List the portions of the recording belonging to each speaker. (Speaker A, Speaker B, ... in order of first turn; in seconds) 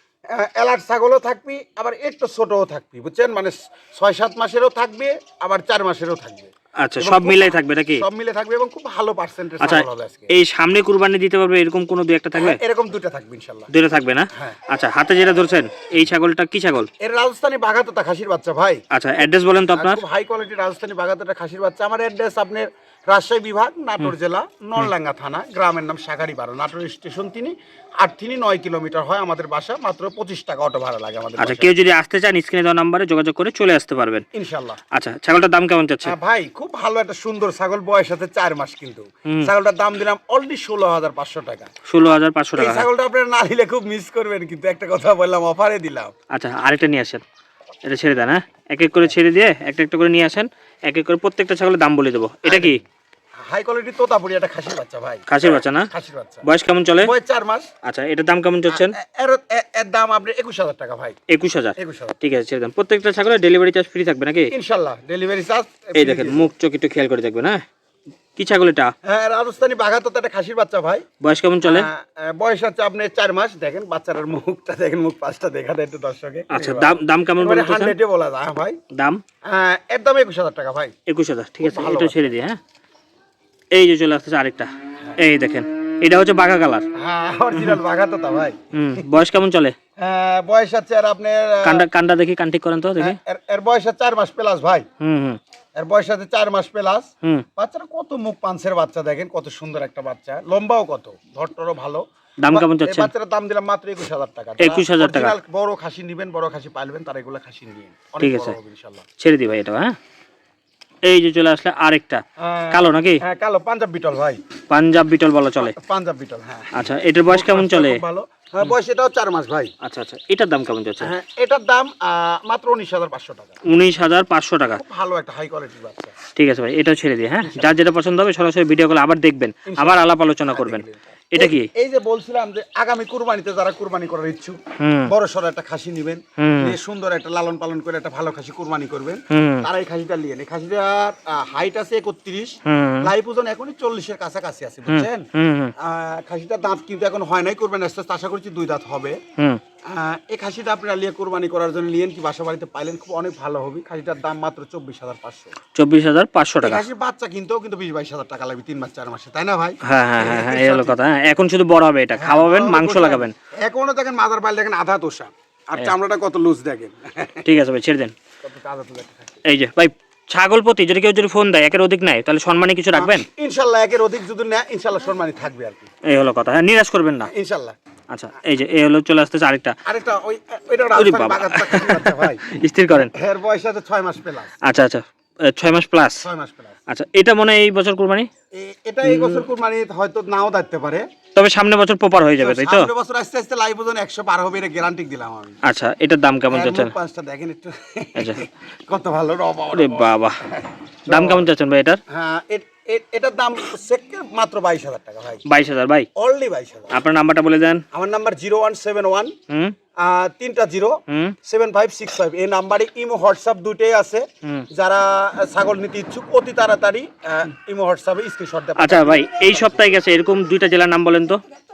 Speaker A: 0.3-10.3, 12.3-13.7, 14.3-14.6, 17.0-18.8, 19.7-31.7, 34.3-34.8, 36.1-41.7, 42.6-46.1, 52.4-52.8, 53.4-56.5, 57.0-57.7, 58.7-61.2, 61.8-62.2, 64.5-66.5, 69.0-71.0, 71.6-78.8, 79.4-80.9, 81.6-82.3, 87.0-89.0, 90.0-91.8, 93.0-94.8, 95.8-109.0, 112.4-114.4, 115.6-119.7, 121.0-123.5, 124.7-126.1, 127.4-127.7, 129.7-145.2, 145.8-149.2, 149.9-155.5, 156.6-161.0, 162.2-167.5, 168.4-169.4, 172.9-175.9, 177.3-177.8, 179.8-182.4, 183.0-184.6, 186.2-186.8, 188.5-191.1, 192.4-195.6, 196.5-201.5, 202.1-205.4, 206.2-207.0, 207.9-209.3, 210.0-219.8
Speaker B: 6.8-8.0, 9.6-12.6, 13.7-16.9, 18.9-20.0, 31.4-34.2, 34.9-36.1, 41.9-42.9, 46.3-47.2, 47.9-52.8, 55.3-55.9, 56.4-57.1, 57.8-58.9, 61.3-64.5, 66.0-67.6, 68.3-68.9, 71.2-71.9, 76.5-78.0, 78.9-79.2, 81.1-82.6, 83.7-86.8, 88.7-89.8, 91.6-93.2, 95.0-95.4, 102.4-103.1, 104.6-105.3, 108.2-108.5, 109.2-110.0, 111.0-113.2, 114.7-115.7, 116.7-118.0, 119.8-121.1, 123.7-124.8, 126.3-130.8, 131.3-131.7, 134.8-135.1, 136.4-136.7, 139.3-139.7, 142.7-143.1, 144.9-145.7, 155.7-156.8, 159.8-163.3, 167.4-168.1, 169.4-173.2, 176.1-177.3, 178.1-179.7, 180.9-183.1, 184.6-186.2, 186.9-188.3, 189.0-189.4, 191.3-192.9, 195.6-196.9, 198.2-198.4, 199.7-200.4, 201.1-202.0, 205.4-206.1, 206.9-207.8, 209.5-209.7, 211.1-211.3, 218.8-221.4